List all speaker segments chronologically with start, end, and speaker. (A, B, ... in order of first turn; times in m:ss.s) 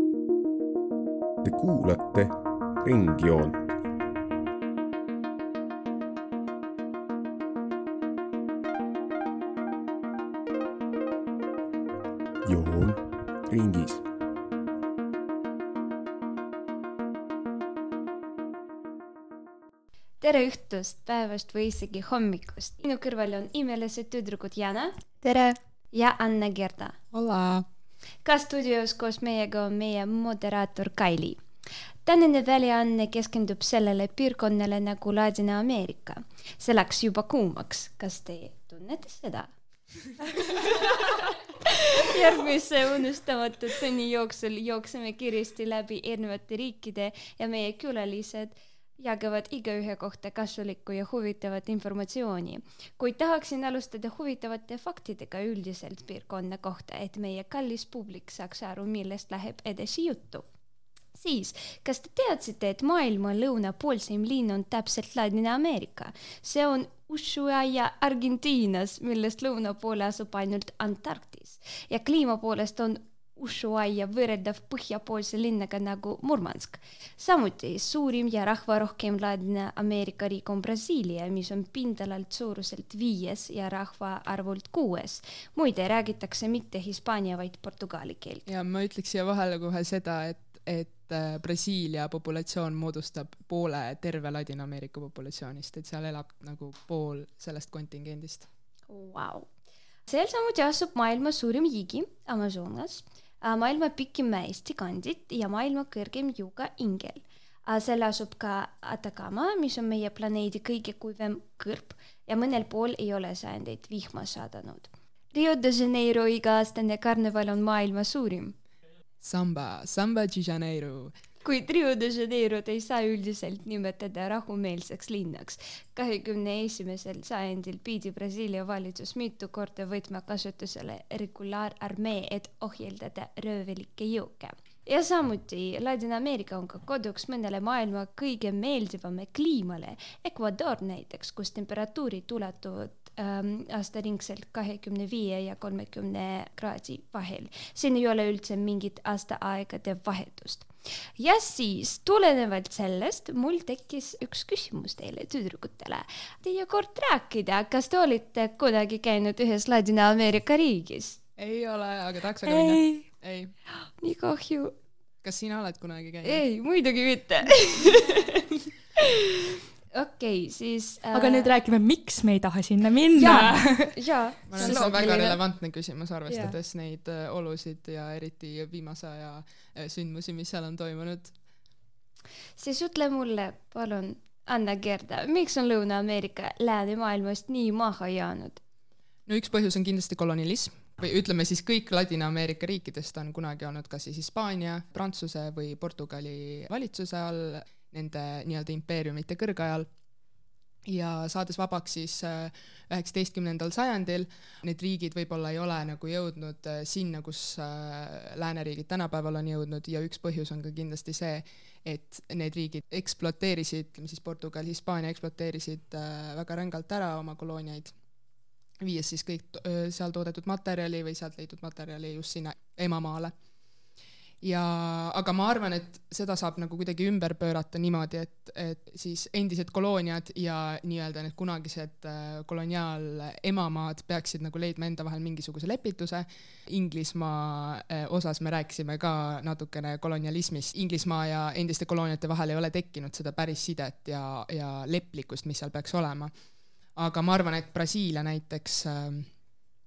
0:01.4-0:03.7 A
0:12.4-0:14.0 A
0:20.2-0:27.0 B
0:27.1-0:27.6 C
0:28.2-0:31.4 B
0:32.0-0:39.5 B
0:40.3-1:00.4 B
1:01.2-1:28.4 B
1:28.4-1:38.5 C
1:38.9-1:39.5 B
1:40.1-1:58.5 B
1:59.2-2:01.1 C
2:01.4-2:41.2 B
2:41.4-2:43.5 C
2:44.0-2:44.7 B
2:45.2-2:46.4 C
2:46.2-2:48.5 B
2:49.0-2:51.5 B
2:51.1-2:54.0 D
2:53.1-2:55.4 B
2:54.5-3:01.3 C
2:54.6-2:55.0 D
2:56.3-2:56.5 D
3:02.6-3:08.6 B
3:09.3-3:19.9 C
3:20.8-3:37.9 C
3:38.8-3:43.3 C
3:44.4-4:06.3 C
4:07.0-4:09.3 C